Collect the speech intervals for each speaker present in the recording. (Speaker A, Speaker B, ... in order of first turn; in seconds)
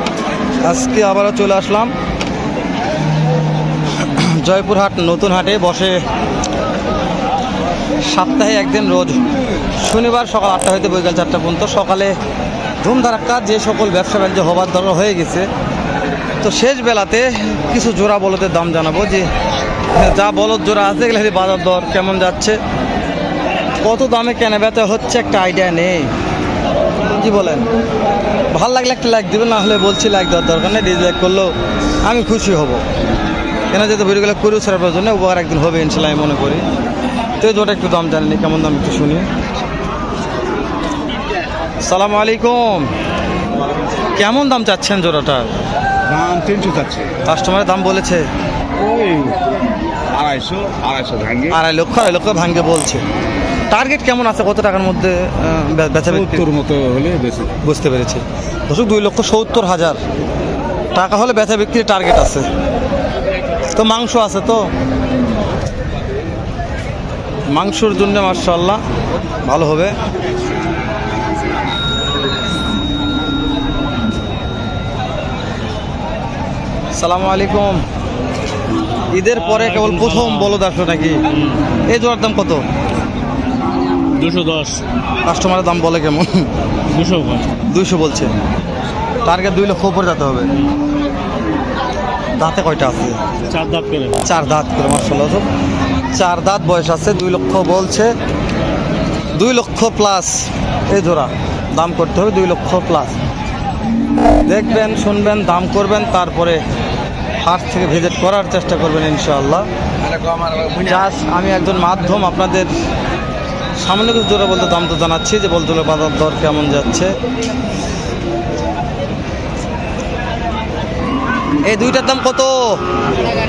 Speaker A: 0.7-1.9, 4.0-6.0, 8.1-9.2, 9.8-12.1, 12.8-15.5, 16.4-19.3, 19.9-22.6, 23.8-26.1, 27.1-27.6, 28.5-31.5, 32.0-32.8, 33.7-36.6, 37.4-39.3, 41.9-42.9, 44.2-45.5, 47.2-48.3, 51.5-53.0, 53.7-56.5, 57.6-60.0, 61.0-62.5, 63.8-64.7, 67.5-68.8, 69.5-69.9, 77.0-77.8, 79.1-81.2, 81.9-82.6, 85.3-86.5, 87.7-88.3, 89.2-90.5, 92.4-93.2, 94.2-95.5, 96.2-98.1, 99.3-103.2, 104.5-106.6, 107.4-109.7, 110.8-112.7, 113.8-117.1, 121.7-122.8
Speaker B: 46.1-47.2, 48.8-49.4, 50.1-51.5, 56.1-57.5, 110.4-110.7
Speaker C: 79.3-80.5, 81.3-81.6, 84.1-84.8, 86.9-87.5, 93.5-94.2